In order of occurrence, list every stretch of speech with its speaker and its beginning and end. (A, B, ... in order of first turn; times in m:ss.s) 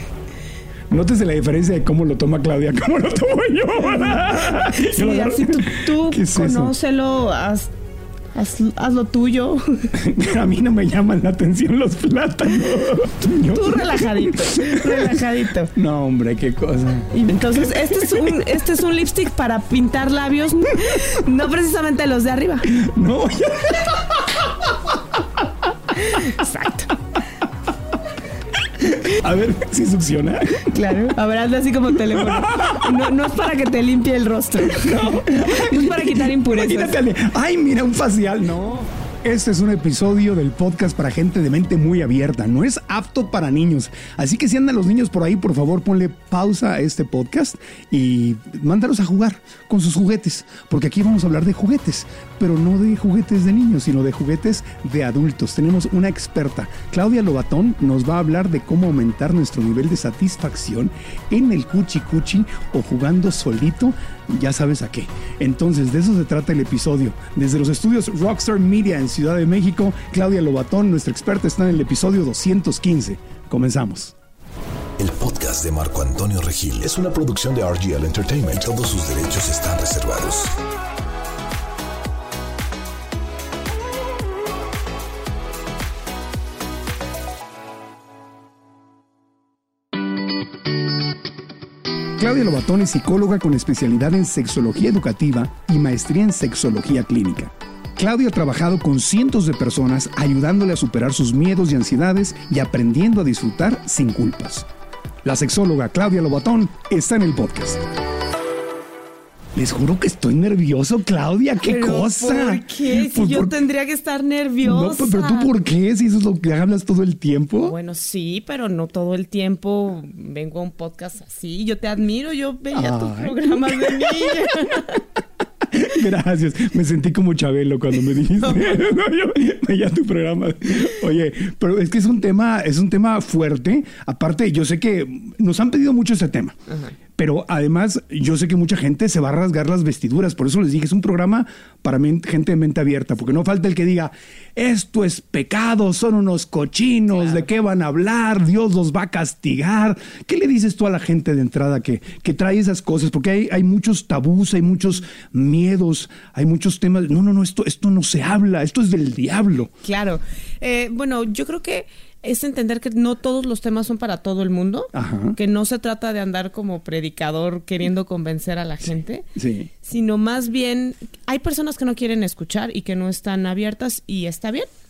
0:00.9-0:06.7 A
0:03.9-0:07.7 B
0:08.3-0:09.9 B
0:10.0-0:15.2 A
0:13.5-0:15.7 B
0:15.7-0:18.3 A
0:17.1-0:22.7 B
0:22.7-0:24.0 A
0:26.0-0:26.9 B
0:28.8-0:30.7 A
0:30.7-0:37.0 B
0:32.1-0:32.8 A
0:34.9-1:14.1 A
1:15.0-1:20.5 C
1:32.2-1:44.7 A
1:45.2-1:47.8 A
1:49.6-1:53.5 A
1:51.6-1:55.5 B
1:54.6-1:57.8 A
1:57.6-2:05.0 B
2:02.7-2:04.5 A
2:05.7-2:16.6 A
2:08.4-2:08.8 B
2:16.7-2:16.9 B
2:17.2-2:39.7 A
2:27.1-2:27.5 B
2:39.8-2:49.3 B
2:44.9-2:45.4 A
2:49.4-2:49.7 A
2:49.8-2:54.7 B